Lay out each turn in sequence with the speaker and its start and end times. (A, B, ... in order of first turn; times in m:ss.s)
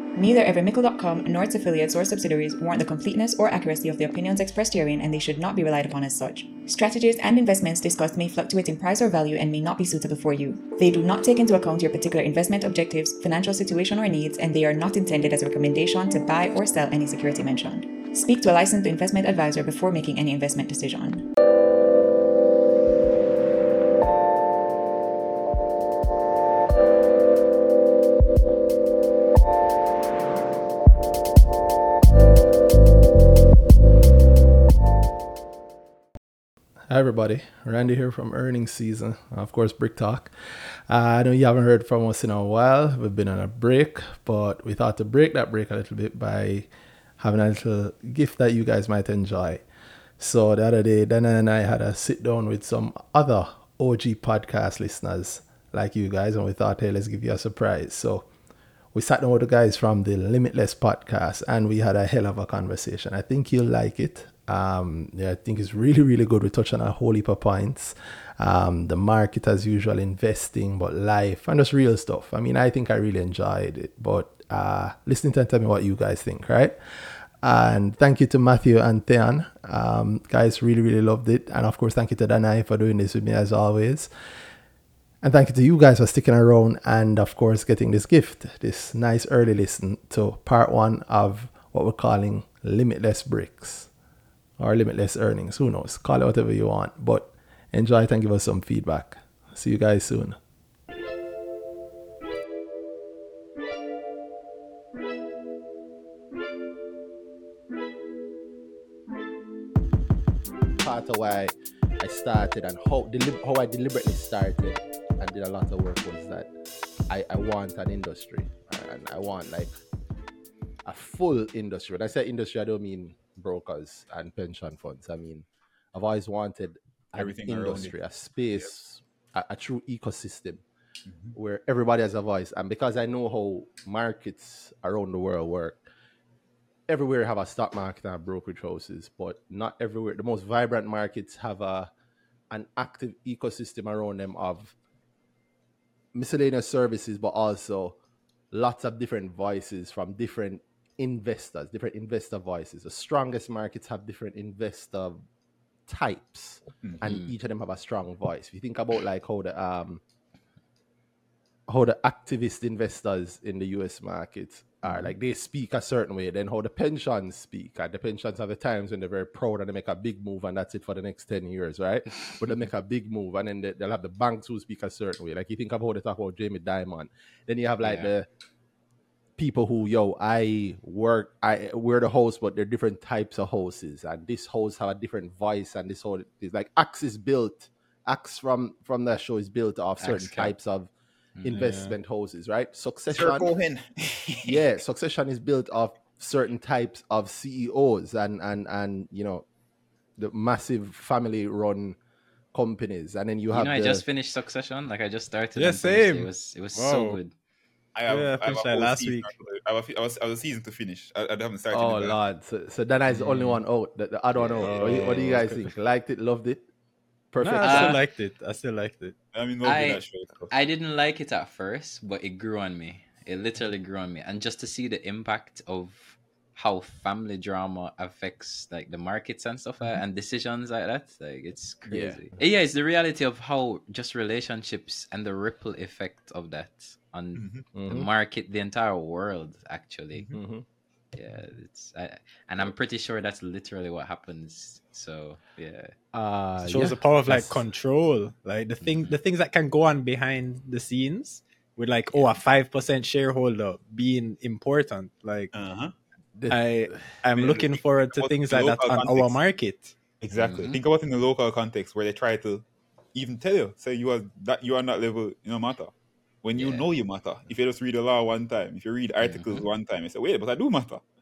0:00.2-0:21.3 A
0:36.9-0:40.3 B
0:40.9-0:49.6 B
0:50.2-0:58.3 B
0:58.9-1:24.1 B
1:25.2-1:33.9 B
1:34.6-1:40.4 B
1:50.8-1:56.5 B
1:57.1-1:59.8 B
2:00.8-2:10.6 B
2:07.2-2:07.9 C
2:11.3-2:15.8 B
2:16.9-2:21.9 B
2:22.5-2:24.8 B
2:26.1-2:28.0 B
2:28.5-2:35.2 B
2:35.9-2:40.0 B
2:37.0-2:37.3 D
2:41.7-2:58.3 B
2:57.8-2:58.1 D
2:59.4-3:10.9 B
3:10.0-3:10.6 D
3:11.4-3:11.7 D
3:11.4-3:13.5 B
3:11.6-3:12.0 E
3:13.1-3:14.6 C
3:14.4-3:19.5 B
3:20.2-3:22.0 B
3:22.5-3:24.0 B
3:23.5-3:27.3 D
3:25.6-3:27.2 E
3:28.0-3:32.2 C
3:28.1-3:29.3 E
3:31.7-3:36.6 B
3:33.1-3:33.6 D
3:34.4-3:35.3 D
3:34.6-3:35.7 E
3:37.3-3:38.0 B
3:37.4-3:39.2 E
3:37.6-3:38.0 D
3:39.3-3:40.5 C
3:39.6-4:00.3 D
3:51.9-3:52.2 B
3:57.4-3:57.7 C
3:57.8-3:58.1 B
4:00.3-4:00.7 B
4:01.1-4:06.0 D
4:06.1-4:07.6 B
4:06.6-4:15.5 E
4:08.8-4:09.2 D
4:12.1-4:12.4 D
4:15.5-4:15.9 C
4:16.4-4:17.2 B
4:16.5-4:20.0 E
4:17.3-4:19.4 C
4:20.2-4:31.0 C
4:20.3-4:20.8 D
4:26.6-4:26.9 D
4:29.2-4:29.6 D